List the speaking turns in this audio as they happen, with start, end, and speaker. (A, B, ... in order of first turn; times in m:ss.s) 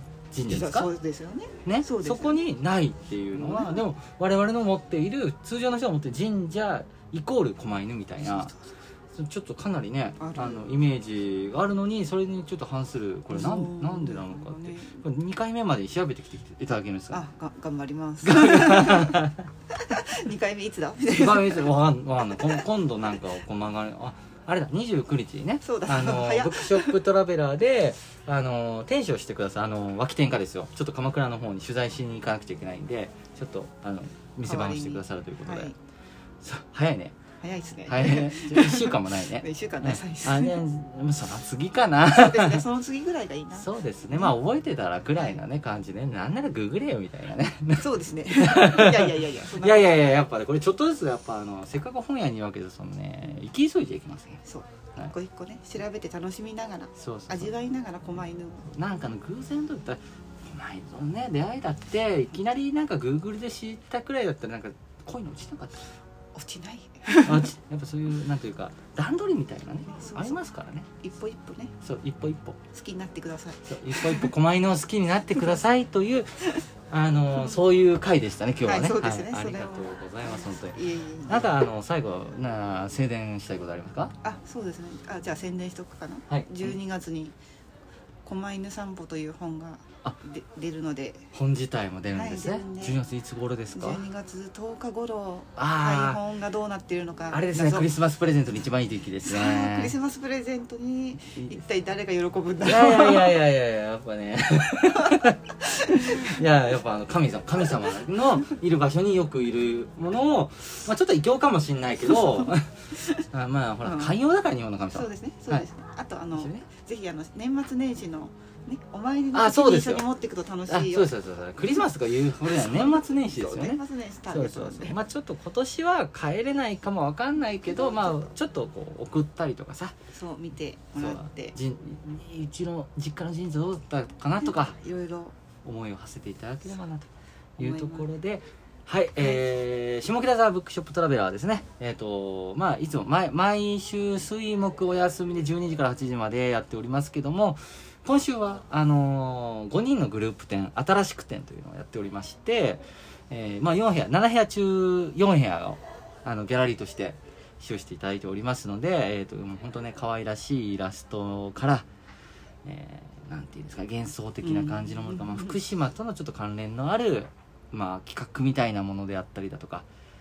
0:00.3-0:00.9 A
0:00.5-0:02.4 B
0:01.7-0:08.5 A
0:03.3-0:03.9 B
0:08.2-0:08.6 B
0:09.2-0:17.2 A
0:10.2-0:10.7 B
0:13.3-0:15.0 B
0:17.1-0:19.2 B
0:18.2-0:19.5 A
0:19.8-0:21.7 B
0:21.2-0:35.7 A
0:22.4-0:22.6 B
0:25.6-0:27.0 B
0:34.4-0:35.8 B
0:36.4-0:37.2 A
0:37.4-0:40.6 B
0:37.9-0:42.6 A
0:42.1-0:44.4 B
0:43.5-0:47.9 A
0:45.2-0:45.4 B
0:47.8-0:50.2 B
0:48.4-0:54.4 A
0:54.5-0:58.7 B
0:57.0-0:57.5 A
0:58.7-1:05.8 A
1:06.4-1:07.5 B
1:07.2-1:10.9 A
1:09.9-1:10.4 B
1:11.0-1:11.8 B
1:11.8-1:12.6 A
1:12.7-1:14.3 B
1:13.7-1:24.1 A
1:18.6-1:21.5 B
1:24.2-1:27.4 B
1:26.3-1:26.8 A
1:28.2-1:31.3 B
1:31.3-1:34.0 A
1:32.1-1:33.0 B
1:33.7-1:37.9 B
1:35.6-1:36.2 A
1:37.3-1:39.9 A
1:39.2-1:43.4 B
1:42.6-1:55.7 A
1:45.9-1:46.3 B
1:52.1-1:52.5 B
1:53.8-1:54.2 B
1:54.9-2:01.1 B
1:56.4-1:56.7 A
1:59.3-2:00.1 A
2:00.7-2:10.0 A
2:02.5-2:05.0 B
2:07.7-2:08.3 B
2:10.1-2:11.6 B
2:11.0-2:14.8 A
2:14.4-2:15.4 B
2:15.6-2:41.9 A
2:17.6-2:18.1 B
2:19.2-2:19.4 B
2:42.6-2:49.9 A
2:44.4-2:45.6 B